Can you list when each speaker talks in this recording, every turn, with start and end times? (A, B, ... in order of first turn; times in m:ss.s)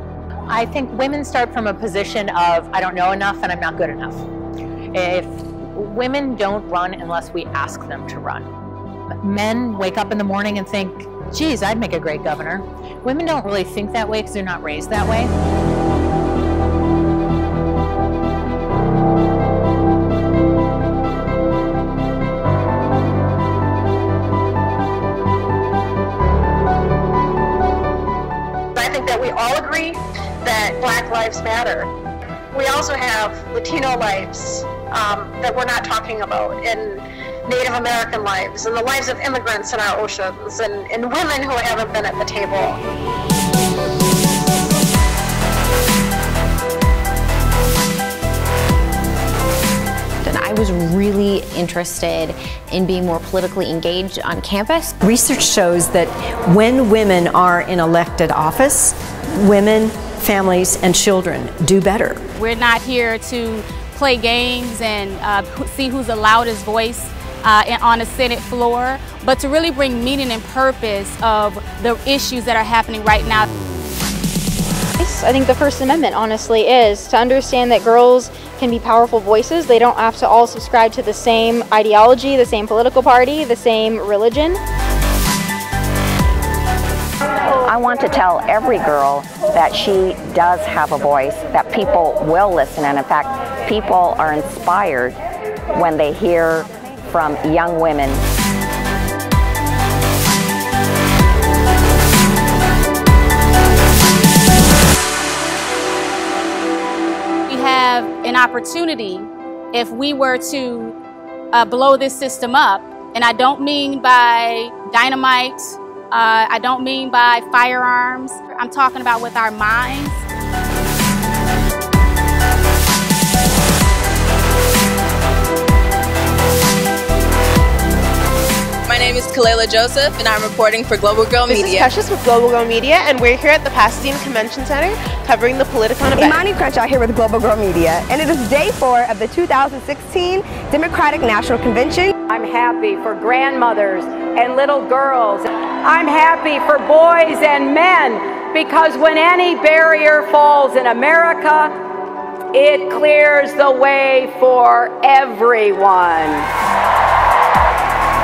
0:00.5-0:04.2 A
0:04.9-0:08.5 A
0:09.2-0:15.3 A
0:28.7-0:31.9 B
0:32.5-0:42.8 B
0:50.2-0:54.9 C
0:55.0-1:02.2 D
1:02.4-1:13.5 E
1:15.0-1:24.6 F
1:27.5-1:35.2 G
1:35.7-1:38.2 G
1:47.5-1:51.0 E
1:51.5-2:00.2 E
2:08.9-2:11.9 H
2:11.5-2:16.4 I
2:16.2-2:22.1 J
2:22.3-2:31.7 K
2:32.5-2:36.5 K